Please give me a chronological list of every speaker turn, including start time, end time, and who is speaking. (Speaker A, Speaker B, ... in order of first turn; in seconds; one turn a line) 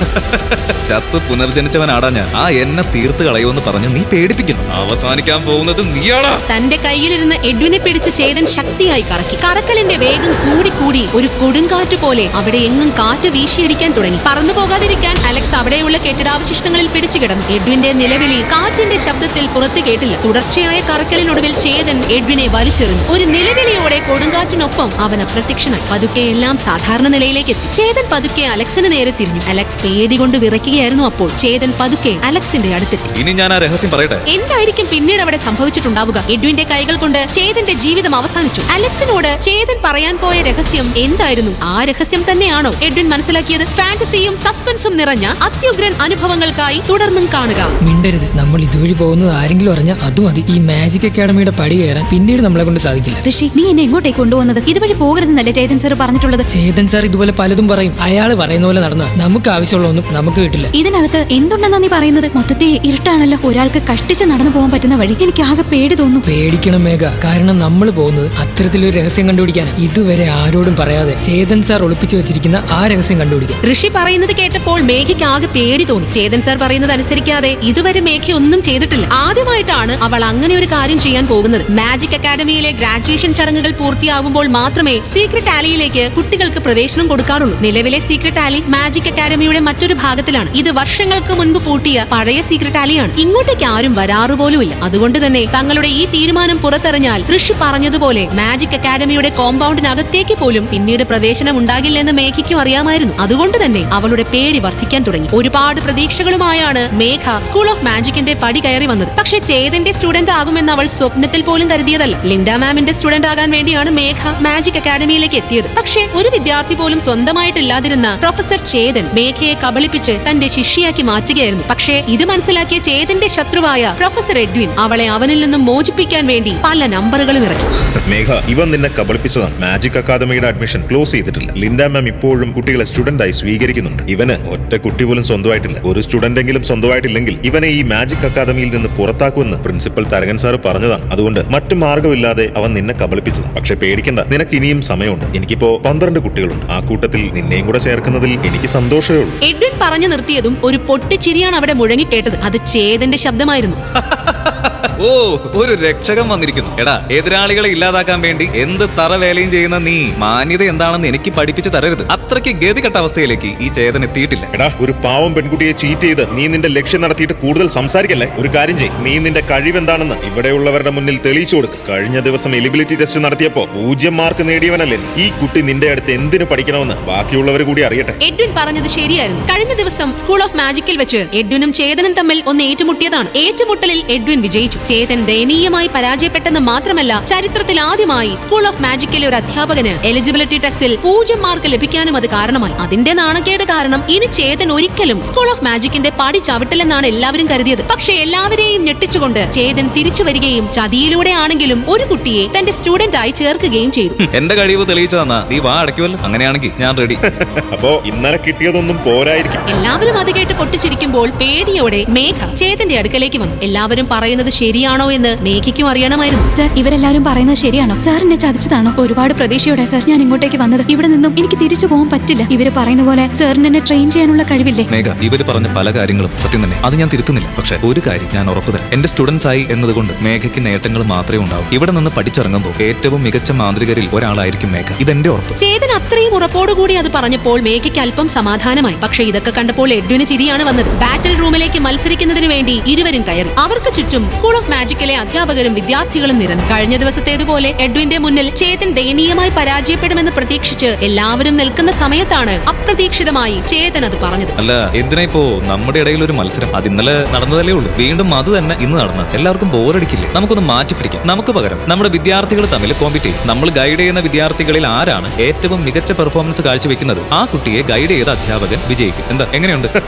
Speaker A: 0.2-6.4
Speaker B: 6.5-33.1
Speaker A: 33.1-34.2
Speaker B: 34.3-47.7
Speaker C: 47.8-53.2
Speaker D: 53.2-56.4
Speaker C: 56.5-60.7
Speaker D: 60.7-66.2
Speaker C: 66.2-73.6
Speaker B: 73.6-127.7
Speaker E: 128.1-149.4
Speaker B: 149.4-153.8
Speaker A: 154.0-164.5
Speaker E: 164.5-178.2
Speaker B: 178.2-204.2
Speaker A: 204.3-207.2
Speaker E: 207.7-209.7
Speaker B: 209.7-216.5
Speaker D: 216.5-224.9
Speaker A: 224.9-235.5
Speaker B: 235.6-254.5
Speaker A: 254.6-269.9